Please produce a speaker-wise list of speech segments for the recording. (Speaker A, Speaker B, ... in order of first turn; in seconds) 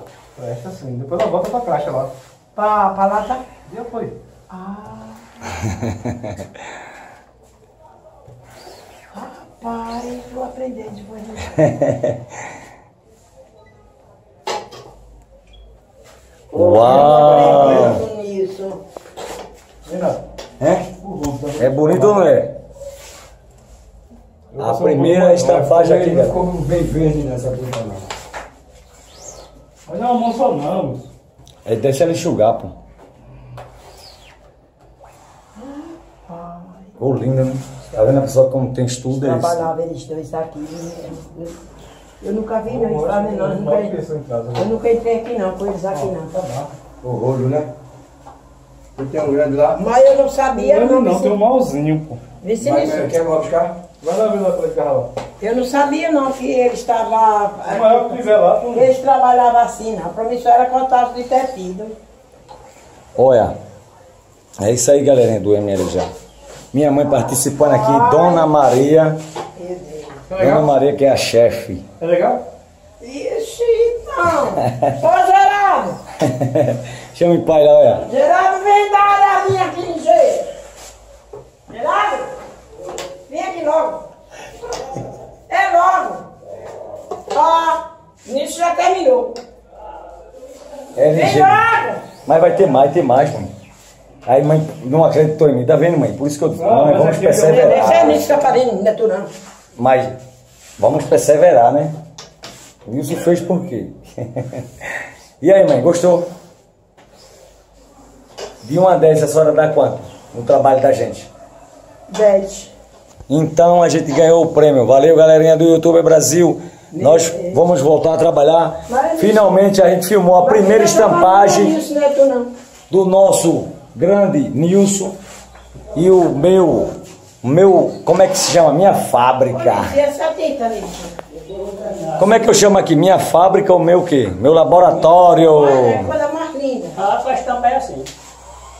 Speaker A: 0.3-2.1, 3.7-4.1, 16.8-17.9, 19.8-20.2, 21.0-22.3, 24.5-25.7, 29.9-31.1, 42.7-44.7, 45.9-46.7, 50.5-52.2, 53.8-55.1, 57.6-58.9, 70.3-70.7, 72.0-72.4, 96.6-98.5
Speaker B: 2.5-3.4, 4.5-5.6, 9.1-11.7, 16.5-18.8, 35.6-36.9, 39.2-41.5, 42.2-43.9, 44.5-46.3, 49.7-51.4, 52.4-53.1, 55.4-58.2, 58.7-61.9, 67.5-68.5, 69.5-70.2, 73.0-76.0, 78.0-80.5, 81.7-82.3, 83.3-84.0, 85.5-86.2, 87.3-89.3, 91.0-92.0, 97.4-99.3, 112.1-112.7, 116.9-117.6, 118.9-119.6, 120.4-122.5, 129.5-131.2, 135.4-137.0
Speaker C: 11.6-12.2, 16.5-18.0, 20.6-20.9, 21.6-22.5, 24.6-26.4, 31.6-32.7, 37.0-39.7, 63.1-63.5, 64.6-66.1, 66.7-69.2, 70.3-71.8, 76.3-78.1, 90.9-91.6, 92.2-93.5, 94.2-98.2, 99.8-100.1, 100.8-101.9, 102.8-104.7, 105.4-106.3, 108.6-111.3, 113.3-121.7, 122.9-125.1, 125.9-129.9, 132.2-136.1
Speaker D: 25.5-28.1, 47.0-47.7, 49.0-49.8, 52.6-53.7
Speaker E: 131.5-132.3, 136.9-138.1